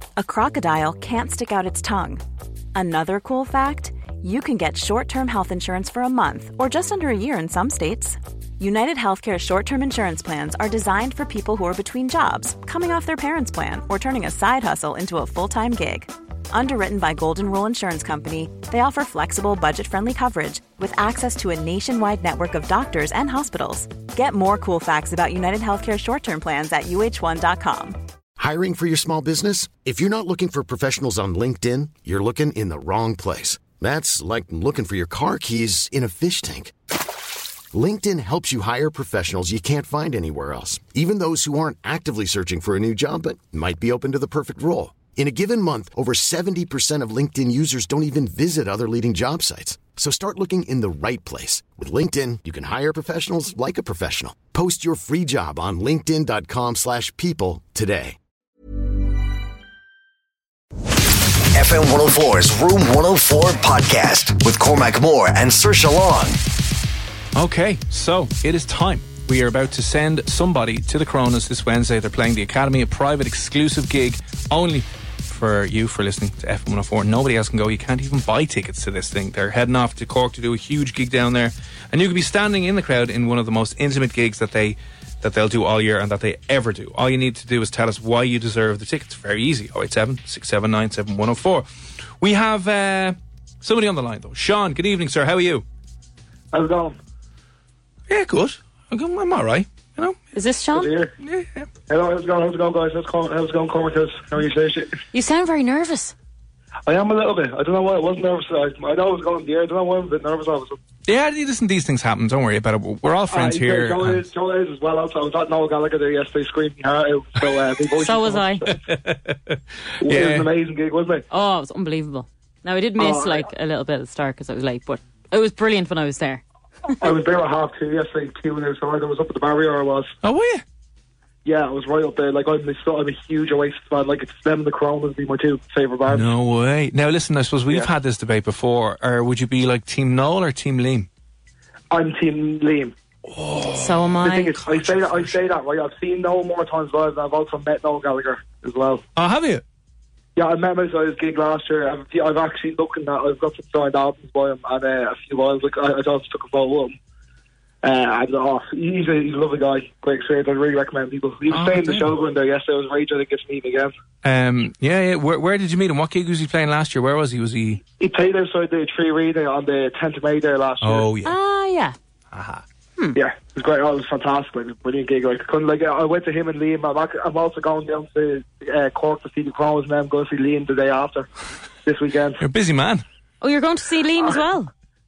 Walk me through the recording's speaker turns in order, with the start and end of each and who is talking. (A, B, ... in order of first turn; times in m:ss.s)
0:00.2-0:02.2 A
0:02.7-0:28.0 A
0:28.4-0:36.7 B
0:37.7-0:58.2 B
1:01.5-1:06.4 C
1:07.3-1:31.7 D
1:32.2-1:35.6 D
1:36.5-1:37.0 E
1:38.1-1:40.2 D
1:40.3-1:40.9 F
1:40.7-1:41.1 E
1:41.2-1:41.7 D
1:41.9-1:44.9 E
1:45.1-1:46.1 F
1:46.8-1:50.8 E
1:51.0-1:54.3 D
1:53.3-1:58.8 E
1:58.0-1:58.6 F
1:58.7-2:00.5 D
2:00.0-2:01.2 E
2:01.3-2:06.4 F
2:03.0-2:03.4 E
2:07.0-2:10.1 E
2:10.2-2:10.6 D
2:11.4-2:16.3 E
2:16.1-2:21.1 D
2:21.9-2:22.9 E
2:23.2-2:25.4 D
2:23.7-2:24.5 F
2:24.2-2:29.0 E
2:29.2-2:29.6 D
2:30.4-2:36.9 E
2:37.8-2:43.9 E
2:41.5-2:42.1 D
2:44.2-2:47.8 D
2:48.0-2:51.1 E
2:50.8-2:51.3 D
2:51.2-2:51.9 F
2:52.3-2:52.6 D
2:53.2-3:01.3 E
3:01.8-3:02.4 E
3:02.4-3:03.0 D
3:03.4-3:04.7 F